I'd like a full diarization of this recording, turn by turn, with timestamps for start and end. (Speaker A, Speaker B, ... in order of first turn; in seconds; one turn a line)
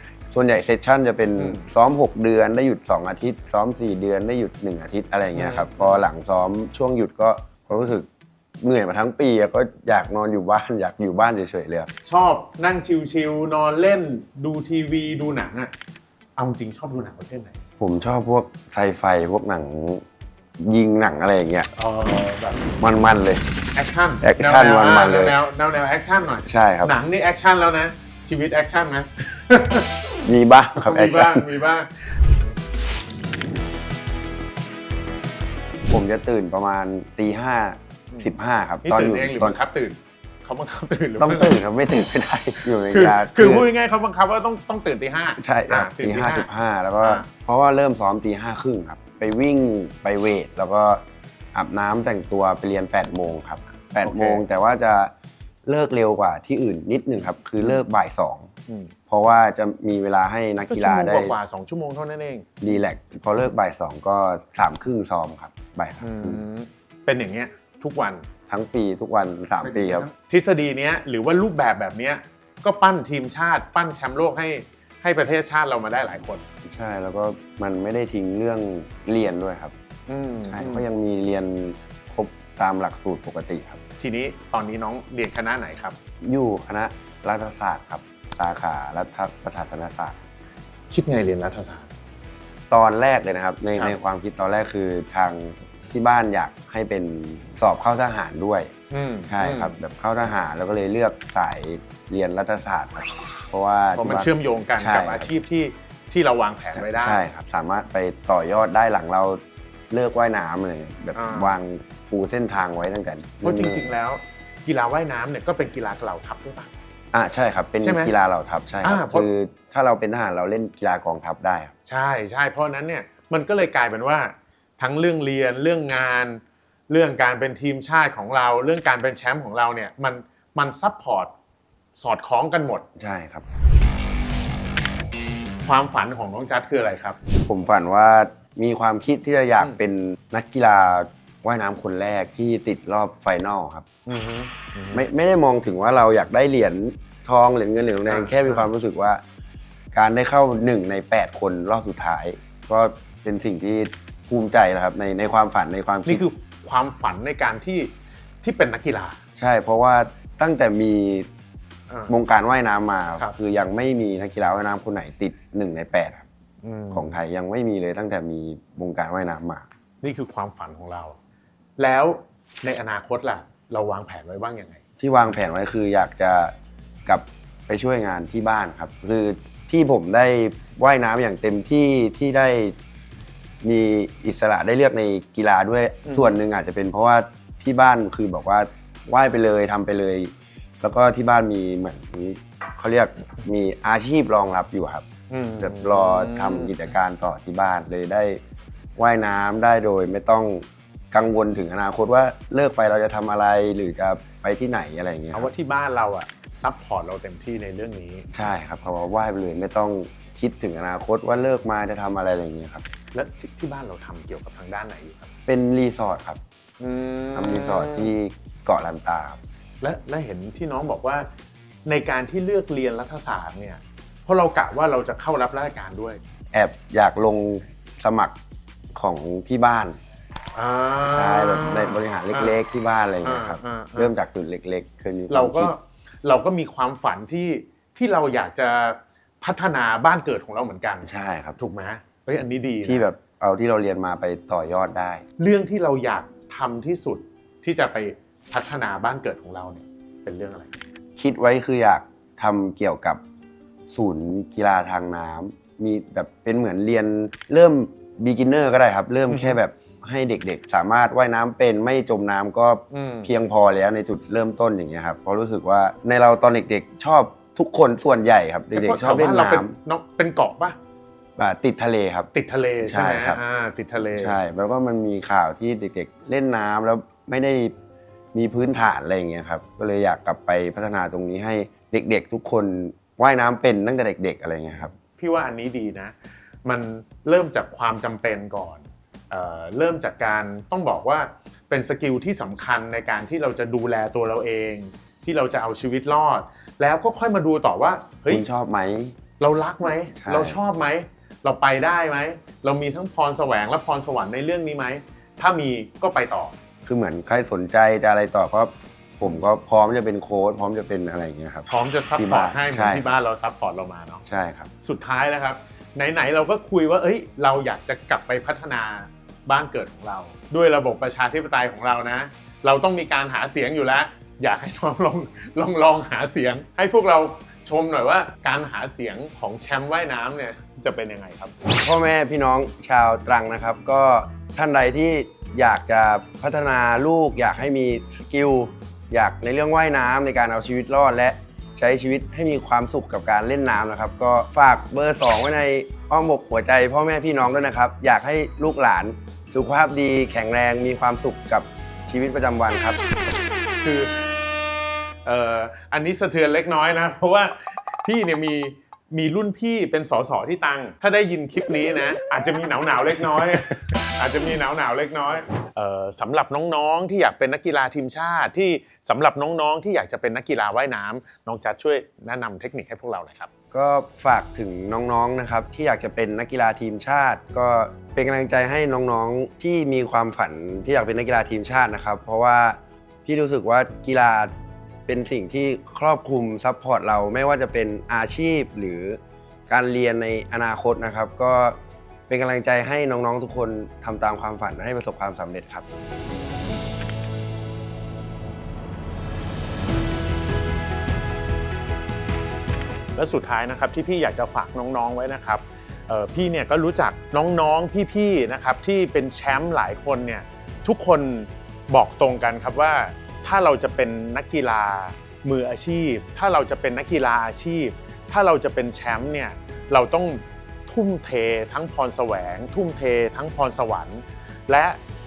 Speaker A: 0.3-8.1
Speaker B: 1.4-1.6
Speaker B: 5.3-6.0
Speaker A: 8.6-11.9
Speaker B: 12.1-15.7
Speaker B: 16.4-17.6
Speaker A: 17.8-20.0
Speaker A: 20.6-21.7
Speaker B: 21.8-22.7
Speaker A: 22.8-23.4
Speaker B: 23.8-29.9
Speaker A: 24.2-25.4
Speaker A: 26.4-26.9
Speaker A: 30.2-31.5
Speaker B: 30.8-32.4
Speaker A: 35.9-39.6
Speaker B: 38.8-41.6
Speaker A: 41.2-43.7
Speaker B: 42.9-46.5
Speaker A: 45.4-51.0
Speaker B: 47.0-47.3
Speaker A: 51.5-55.1
Speaker B: 54.0-54.4
Speaker A: 55.7-58.5
Speaker B: 58.7-58.9
Speaker A: 59.1-61.4
Speaker B: 60.7-62.5
Speaker A: 62.6-66.4
Speaker B: 66.0-68.3
Speaker A: 68.5-70.1
Speaker B: 69.6-76.4
Speaker A: 76.7-79.7
Speaker B: 80.1-80.9
Speaker A: 80.5-83.8
Speaker B: 84.0-86.0
Speaker A: 86.2-90.2
Speaker B: 90.9-91.9
Speaker A: 92.7-98.7
Speaker B: 98.9-99.8
Speaker A: 99.3-105.3
Speaker B: 104.0-107.2
Speaker A: 106.8-113.9
Speaker B: 111.2-111.5
Speaker B: 113.4-116.7
Speaker A: 117.1-121.7
Speaker B: 117.8-118.1
Speaker B: 118.8-119.3
Speaker B: 121.9-131.3
Speaker B: 132.0-132.9
Speaker A: 133.0-133.4
Speaker B: 135.6-137.2
Speaker A: 137.5-143.9
Speaker B: 144.1-145.1
Speaker A: 144.9-149.2
Speaker B: 148.1-148.7
Speaker A: 149.9-156.2
Speaker B: 156.1-157.9
Speaker B: 158.4-159.2
Speaker A: 159.4-161.3
Speaker A: 162.1-166.3
Speaker B: 166.6-167.2
Speaker A: 166.9-169.7
Speaker B: 170.0-171.2
Speaker B: 171.8-174.8
Speaker A: 175.0-176.5
Speaker A: 177.1-182.8
Speaker A: 183.6-195.1
Speaker B: 186.1-186.4
Speaker B: 195.3-196.8
Speaker A: 195.6-198.4
Speaker A: 199.0-205.5
Speaker B: 205.3-208.3
Speaker A: 208.3-212.8
Speaker B: 213.1-215.3
Speaker A: 215.5-216.4
Speaker B: 216.8-218.1
Speaker A: 217.3-219.4
Speaker B: 219.8-221.3
Speaker B: 221.9-226.2
Speaker A: 226.5-228.3
Speaker A: 229.0-230.0
Speaker B: 230.6-232.6
Speaker A: 231.0-235.7
Speaker B: 233.2-234.1
Speaker B: 235.3-243.1
Speaker A: 241.0-241.6
Speaker A: 242.8-245.2
Speaker B: 245.4-250.7
Speaker A: 251.2-253.2
Speaker A: 253.9-269.8
Speaker B: 259.3-259.6
Speaker B: 262.9-263.3
Speaker B: 268.7-270.8
Speaker A: 271.4-272.3
Speaker B: 272.3-274.4
Speaker A: 272.8-273.4
Speaker A: 274.1-277.7
Speaker A: 278.3-284.9
Speaker B: 285.1-298.4
Speaker A: 298.3-299.2
Speaker B: 299.4-306.6
Speaker A: 300.1-300.6
Speaker A: 306.9-313.1
Speaker B: 311.7-314.2
Speaker A: 314.3-314.7
Speaker B: 314.8-331.6
Speaker A: 331.8-353.0
Speaker B: 353.8-354.2
Speaker B: 355.2-373.5
Speaker A: 373.7-384.5
Speaker A: 385.1-389.2
Speaker A: 389.7-391.8
Speaker A: 392.3-395.9
Speaker B: 403.1-425.0